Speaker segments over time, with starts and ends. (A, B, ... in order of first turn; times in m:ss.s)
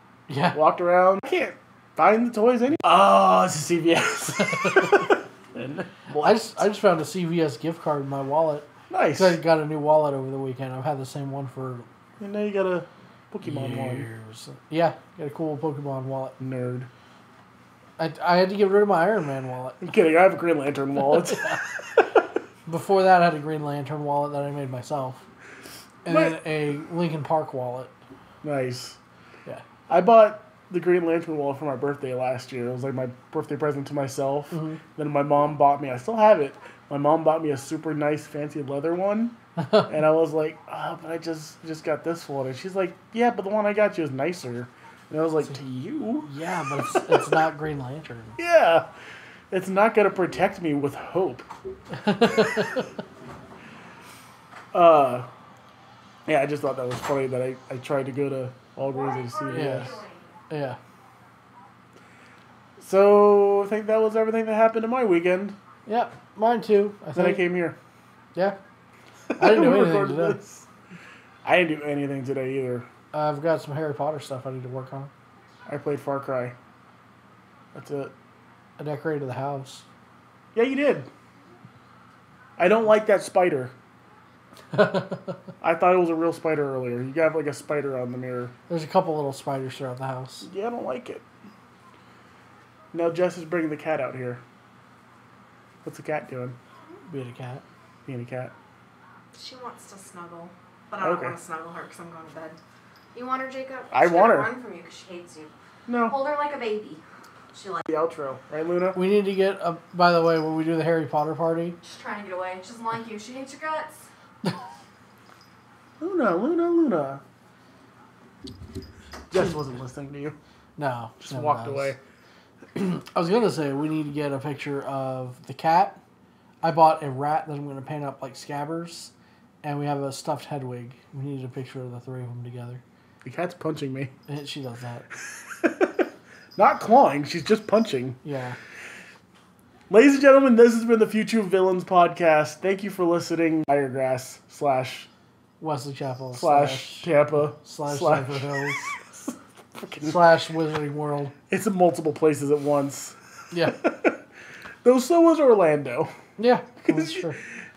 0:00.3-0:00.6 A
0:00.5-0:06.6 B
0:04.4-0:05.1 A
0:06.2-0:11.9 A
0:08.9-0:09.4 B
0:12.2-0:14.1 B
0:13.4-0:16.4 A
0:16.4-0:16.9 B
0:18.0-0:19.8 A
0:19.8-0:22.2 B
0:21.1-0:21.6 A
0:22.7-0:25.2 A
0:26.0-0:27.9 A
0:26.1-0:26.4 B
0:28.4-0:29.0 B
0:29.9-0:39.4 B
0:34.5-0:34.8 A
0:39.6-0:39.9 A
0:39.9-0:46.3 B
0:46.2-0:48.4 A
0:46.9-0:47.4 B
0:48.4-0:48.9 B
0:49.5-0:51.5 B
0:51.9-0:52.9 A
0:54.7-0:55.3 B
0:56.3-1:00.0 B
0:58.9-1:00.3 C
0:59.5-1:00.0 A
1:00.5-1:00.8 A
1:02.8-1:05.6 B
1:05.9-1:07.4 A
1:07.2-1:07.8 B
1:09.3-1:10.7 B
1:09.4-1:10.4 A
1:11.4-1:12.9 B
1:13.1-1:15.1 A
1:15.7-1:16.6 B
1:17.7-1:18.1 B
1:18.8-1:19.9 A
1:20.5-1:21.1 B
1:22.6-1:23.8 B
1:24.7-1:25.4 A
1:25.6-1:28.5 B
1:28.7-1:30.5 A
1:30.4-1:31.2 B
1:32.9-1:34.4 B
1:35.8-1:36.6 B
1:37.1-1:37.6 A
1:38.1-1:38.5 B
1:39.3-1:42.6 C
1:41.0-1:41.4 B
1:43.2-1:45.5 C
1:43.9-1:44.5 B
1:45.9-1:46.2 B
1:46.1-1:47.0 C
1:47.5-1:47.9 C
1:47.9-1:49.0 B
1:49.0-1:51.8 A
1:51.8-1:54.1 C
1:56.0-1:57.2 B
1:59.3-2:00.4 B
2:00.8-2:01.9 A
2:01.2-2:02.0 B
2:02.8-2:06.0 A
2:06.6-2:09.1 A
2:09.6-2:12.8 A
2:13.2-2:14.1 B
2:14.3-2:15.1 A
2:15.5-2:18.2 B
2:18.2-2:18.6 A
2:19.9-2:25.1 B
2:25.6-2:28.9 A
2:26.3-2:30.2 B
2:30.0-2:31.3 A
2:31.5-2:34.2 B
2:33.5-2:33.8 A
2:34.8-2:36.1 B
2:36.4-2:37.4 A
2:36.8-2:37.3 B